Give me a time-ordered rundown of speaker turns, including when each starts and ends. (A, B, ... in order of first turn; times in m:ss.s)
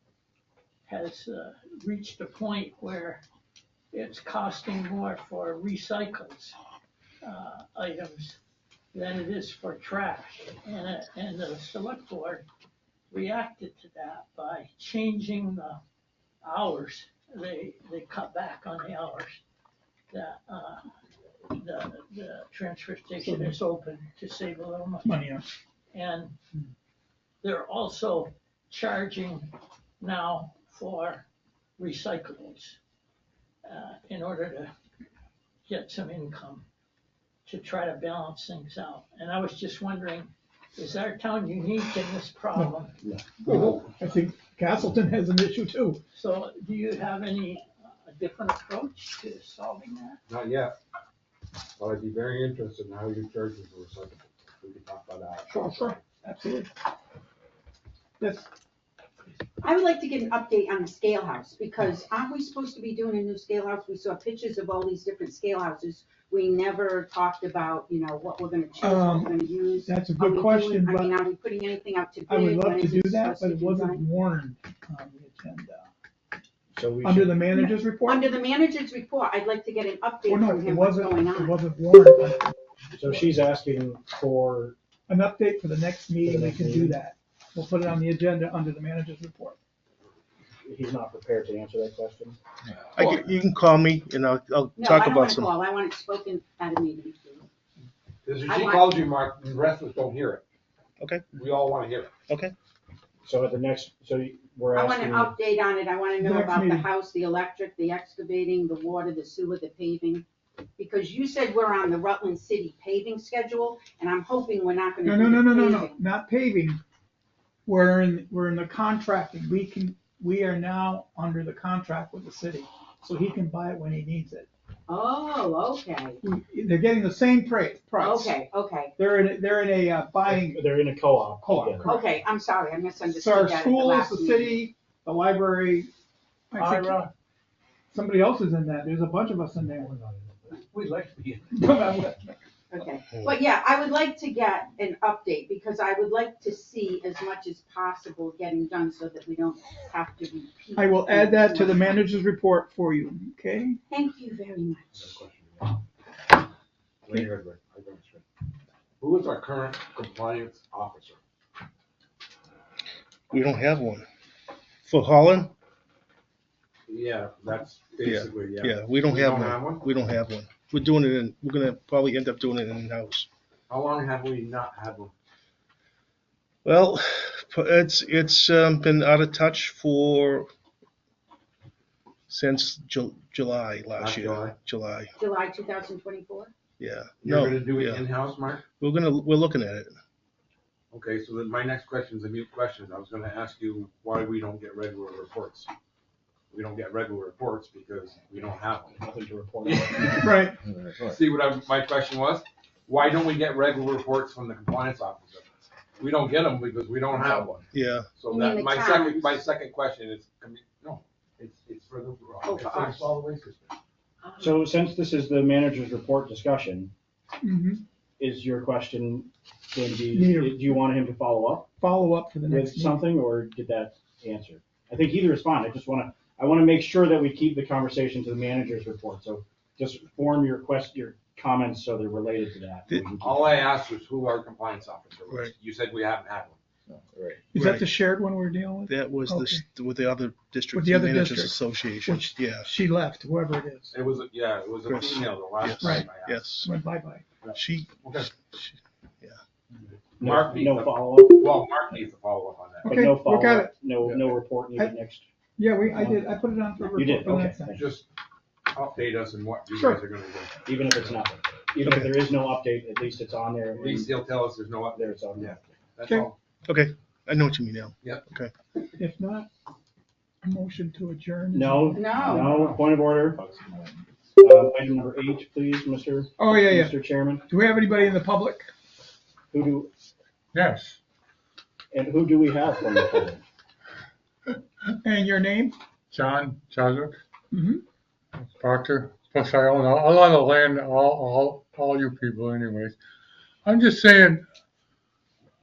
0:00.9-0:03.2 A
0:03.9-0:06.6 A
0:07.2-0:08.4 A
0:08.9-0:12.5 A
0:13.1-0:15.8 A
0:16.4-0:19.4 A
0:20.1-0:20.9 A
0:21.5-0:25.2 A
0:23.2-0:23.6 B
0:25.0-0:25.4 B
0:25.9-0:26.4 A
0:27.4-0:31.2 A
0:31.8-0:32.8 A
0:33.6-0:34.7 A
0:35.6-0:36.7 A
0:37.4-0:43.0 A
0:43.0-0:43.4 C
0:43.4-0:46.0 B
0:46.1-0:50.2 A
0:50.3-0:50.8 D
0:51.8-0:55.9 D
0:55.5-0:56.7 B
0:58.2-0:58.5 B
0:59.6-1:14.0 E
1:08.8-1:11.1 B
1:12.3-1:15.9 B
1:16.7-1:17.5 C
1:17.0-1:18.4 B
1:17.5-1:21.6 E
1:20.3-1:22.5 B
1:22.9-1:24.8 C
1:25.1-1:29.6 B
1:26.2-1:27.0 C
1:30.6-1:32.4 C
1:33.0-1:35.6 F
1:34.8-1:37.4 E
1:38.2-1:40.4 D
1:38.5-1:39.1 E
1:41.0-1:41.3 F
1:41.3-1:42.1 D
1:42.3-1:42.5 F
1:43.2-1:45.4 C
1:44.7-1:50.2 E
1:46.2-1:46.9 B
1:50.8-1:56.0 E
1:55.0-1:56.8 B
1:57.7-2:04.5 B
2:04.9-2:06.2 E
2:06.2-2:08.3 B
2:08.0-2:09.0 E
2:09.0-2:12.0 B
2:10.2-2:12.2 C
2:11.8-2:14.6 E
2:13.1-2:15.9 B
2:16.5-2:17.1 B
2:16.6-2:17.1 G
2:17.9-2:19.9 B
2:20.5-2:21.4 D
2:21.5-2:22.3 B
2:22.7-2:32.0 E
2:30.8-2:33.8 B
2:33.9-2:35.1 E
2:35.0-2:35.8 D
2:37.0-2:38.2 D
2:39.0-2:41.2 D
2:43.3-2:44.0 F
2:44.8-2:45.5 F
2:46.9-2:49.8 D
2:48.0-2:53.3 F
2:53.7-2:55.1 D
2:56.6-3:00.5 F
3:02.3-3:05.1 F
3:04.0-3:04.6 D
3:05.2-3:06.5 E
3:06.8-3:08.1 F
3:07.2-3:08.6 D
3:08.8-3:10.0 F
3:10.9-3:15.7 D
3:16.5-3:19.0 D
3:19.0-3:20.3 C
3:19.6-3:33.7 D
3:20.2-3:20.6 B
3:27.7-3:28.1 F
3:28.3-3:29.4 E
3:32.4-3:33.1 E
3:34.2-3:34.6 E
3:34.4-3:36.9 C
3:37.4-3:37.8 B
3:38.2-3:41.7 C
3:40.1-3:40.8 B
3:41.8-3:43.1 B
3:42.5-3:53.7 C
3:53.1-3:57.0 D
3:57.5-3:59.6 B
3:57.6-3:57.9 F
3:58.9-4:02.7 F
4:00.7-4:03.9 B
4:03.9-4:06.4 D
4:04.9-4:06.7 F
4:05.8-4:07.2 B
4:07.4-4:08.3 D
4:07.6-4:09.4 F
4:10.2-4:13.0 D
4:10.2-4:11.5 C
4:12.8-4:13.8 B
4:12.9-4:15.3 C
4:15.6-4:17.8 B
4:15.9-4:16.3 C
4:16.9-4:17.9 C
4:17.7-4:18.1 D
4:18.7-4:21.3 D
4:19.7-4:20.0 B
4:20.7-4:24.2 C
4:21.8-4:22.2 F
4:23.8-4:26.4 D
4:25.0-4:25.7 C
4:26.7-4:28.5 F
4:29.0-4:29.5 B
4:30.4-4:33.8 B
4:31.5-4:33.4 C
4:31.9-4:32.6 E
4:34.4-4:37.4 C
4:36.4-4:38.7 B
4:39.5-4:39.9 C
4:40.5-4:41.0 G
4:41.9-4:43.4 C
4:45.0-4:45.8 B
4:46.1-4:47.2 G
4:47.5-4:47.8 B
4:48.4-4:53.0 G
4:53.6-4:54.4 G